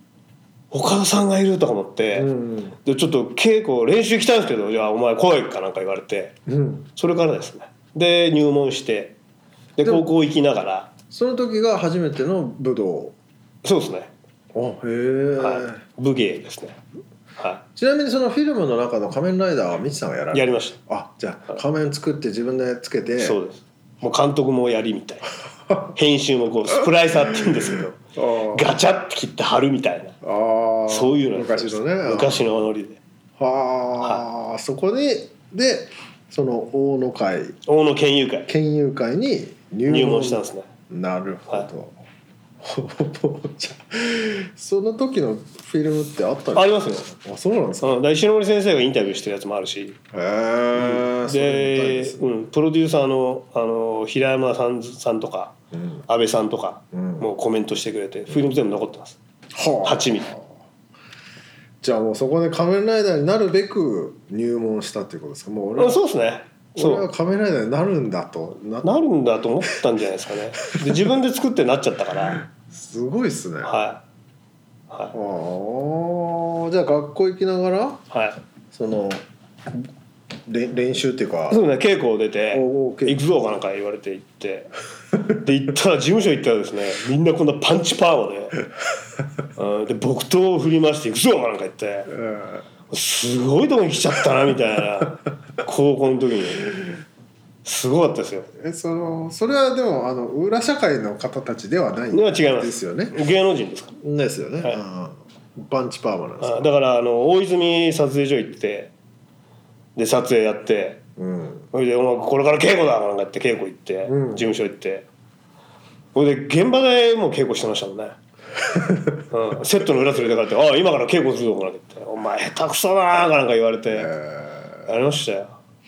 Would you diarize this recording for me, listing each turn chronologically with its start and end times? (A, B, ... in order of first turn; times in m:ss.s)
0:00.7-0:02.3 A
0:02.1-0:02.8 B
0:02.8-0:06.4 A
0:06.5-0:06.9 B
0:07.0-0:09.2 A
0:09.8-0:10.9 A
0:09.8-0:10.1 B
0:11.1-0:13.2 B
0:13.6-0:14.1 A
0:14.5-0:15.8 B
0:15.4-0:16.8 A
0:17.4-0:17.6 A
0:17.8-0:23.4 B
0:20.3-0:20.8 A
0:23.2-0:25.3 A
0:25.9-0:28.0 A
0:26.7-0:28.7 B
0:28.5-0:30.2 A
0:30.2-0:32.5 B
0:30.9-0:33.0 A
0:33.4-0:37.6 B
0:37.6-0:38.5 A
0:38.5-0:42.0 B
0:39.9-0:40.7 A
0:42.6-0:48.0 B
0:46.5-0:47.0 A
0:47.8-0:50.0 A
0:50.1-0:52.2 B
0:50.7-0:55.5 A
0:55.7-0:56.0 B
0:56.1-0:59.2 A
0:56.9-0:57.3 B
0:59.5-1:00.6 B
0:59.8-1:00.3 A
1:01.8-1:06.0 B
1:05.8-1:07.0 A
1:06.8-1:09.0 B
1:08.8-1:12.4 A
1:12.3-1:13.8 B
1:13.6-1:14.0 A
1:15.1-1:18.0 B
1:18.1-1:18.4 A
1:18.7-1:19.8 B
1:20.4-1:21.6 B
1:21.5-1:24.7 A
1:22.5-1:23.2 B
1:25.3-1:28.6 A
1:29.6-1:32.1 A
1:32.1-1:32.6 B
1:32.9-1:36.8 A
1:37.6-1:38.5 A
1:38.6-1:43.2 B
1:42.1-1:44.0 A
1:44.0-1:46.7 B
1:46.4-1:48.9 A
1:50.0-1:51.0 A
1:51.2-1:51.6 B
1:51.7-1:55.0 A
1:54.0-1:54.5 B
1:56.1-1:58.1 A
1:58.6-1:59.2 B
1:59.3-2:04.1 A
2:03.9-2:04.9 B
2:04.8-2:05.5 A